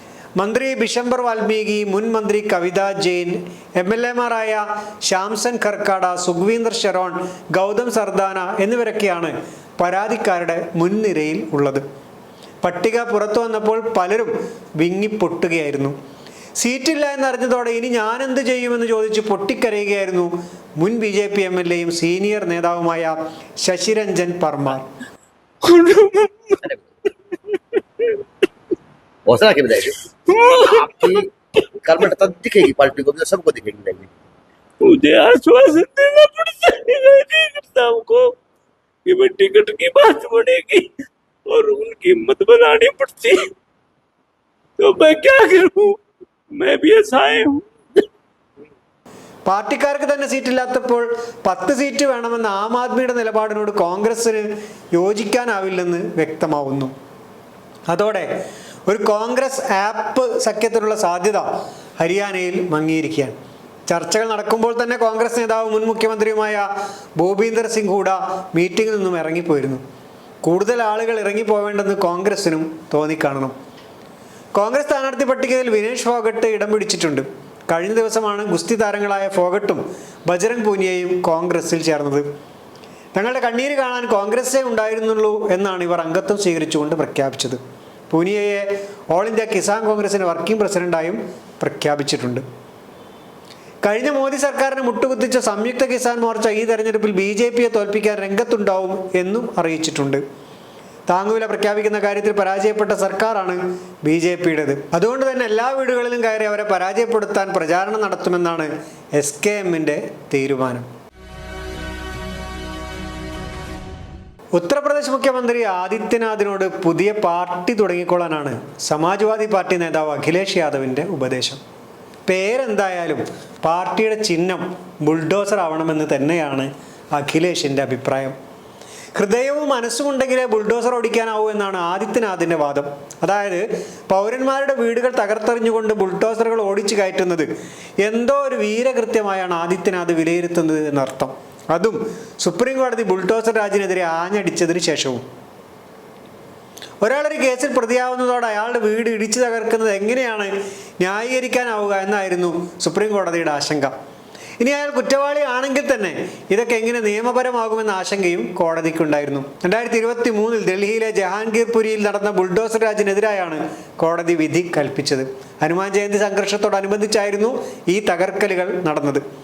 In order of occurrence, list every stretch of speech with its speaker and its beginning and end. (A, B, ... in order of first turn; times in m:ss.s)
0:00.4-0:11.8 A
0:12.6-0:16.0 A
0:16.6-0:24.9 A
0:25.6-0:26.6 B
0:29.3-0:30.0 C
0:30.3-0:30.9 B
0:30.6-0:31.3 C
0:31.8-0:34.1 C
0:34.8-0:38.4 B
0:39.1-0:40.9 B
0:41.5-0:43.5 B
0:44.8-0:46.0 B
0:46.5-0:47.7 B
0:49.5-0:56.9 A
0:57.9-0:58.3 A
0:58.9-1:01.5 A
1:02.0-1:09.8 A
1:10.4-1:13.6 A
1:14.6-1:22.3 A
1:23.2-1:32.4 A
1:33.8-1:40.2 A
1:41.1-1:50.9 A
1:54.5-2:01.6 A
2:02.3-2:08.4 A
2:09.2-2:17.5 A
2:18.0-2:25.2 A
2:27.0-2:33.9 A
2:34.6-2:49.2 A